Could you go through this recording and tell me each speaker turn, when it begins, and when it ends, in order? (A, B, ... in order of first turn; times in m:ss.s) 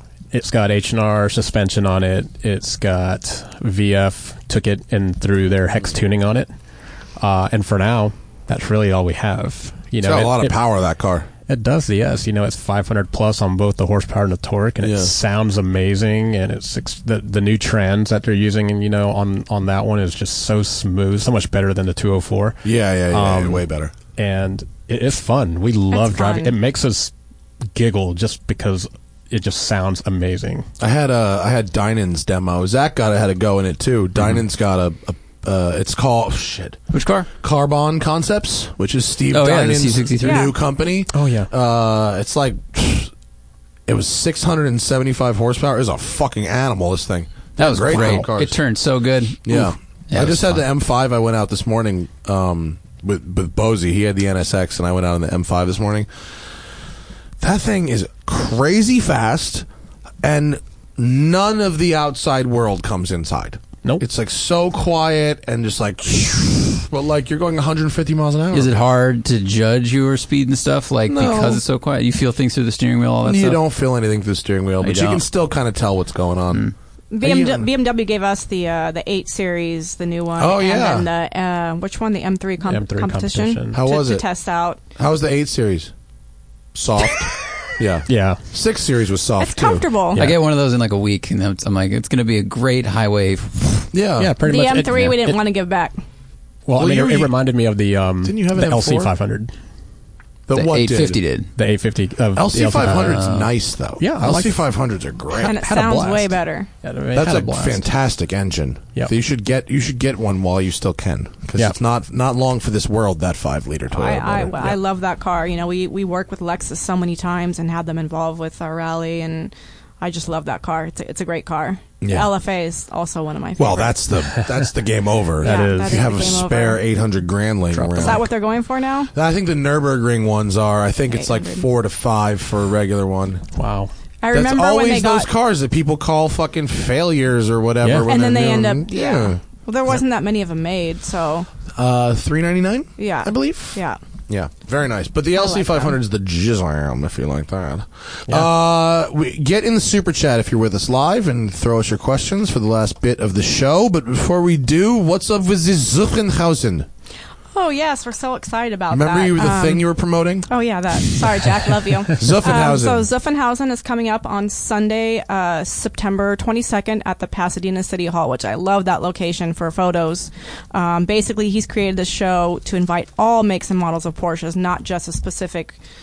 0:00.3-0:06.5 A
0:07.2-0:10.5 A
0:10.0-0:11.3 B
0:11.5-0:23.6 A
0:14.8-0:15.1 B
0:22.6-0:23.9 B
0:24.2-0:27.1 A
0:25.9-0:26.5 C
0:27.7-0:30.7 A
0:30.8-0:36.8 B
0:36.9-0:37.3 D
0:37.4-0:43.1 B
0:39.3-0:40.5 D
0:40.2-0:40.5 C
0:41.1-0:41.5 A
0:43.9-0:48.6 B
0:47.6-0:50.6 D
0:49.4-0:56.1 B
0:57.4-0:59.6 B
1:00.2-1:08.7 B
1:08.5-1:13.6 D
1:11.1-1:11.6 B
1:13.2-1:16.7 B
1:14.8-1:15.2 D
1:17.1-1:24.8 C
1:17.2-1:17.7 B
1:20.4-1:21.1 B
1:22.6-1:23.8 A
1:23.7-1:24.2 B
1:25.0-1:25.9 B
1:26.7-1:29.9 B
1:28.1-1:28.4 A
1:29.4-1:30.2 C
1:30.1-1:30.4 A
1:30.2-1:33.9 D
1:33.9-1:34.3 B
1:34.2-1:35.4 A
1:34.4-1:36.0 C
1:36.6-1:39.5 A
1:36.8-1:37.3 B
1:38.2-1:39.1 B
1:40.5-1:41.2 B
1:40.5-1:41.5 D
1:41.6-1:43.4 A
1:42.3-1:45.6 B
1:42.8-1:43.5 D
1:44.0-1:44.6 A
1:45.4-1:46.7 C
1:45.4-1:47.9 A
1:47.1-1:54.7 B
1:53.9-2:04.0 C
2:02.0-2:02.3 B
2:03.6-2:08.2 B
2:05.4-2:06.1 A
2:05.4-2:06.8 C
2:07.7-2:08.2 A
2:08.0-2:09.1 C
2:09.1-2:13.4 B
2:11.1-2:11.6 C
2:13.5-2:13.9 A
2:14.2-2:15.3 C
2:14.3-2:19.4 B
2:18.1-2:21.5 C
2:21.7-2:36.9 B
2:23.0-2:24.0 C
2:25.3-2:25.9 C
2:37.5-2:39.9 C
2:38.9-2:40.5 B
2:40.5-2:55.8 C
2:42.1-2:43.1 B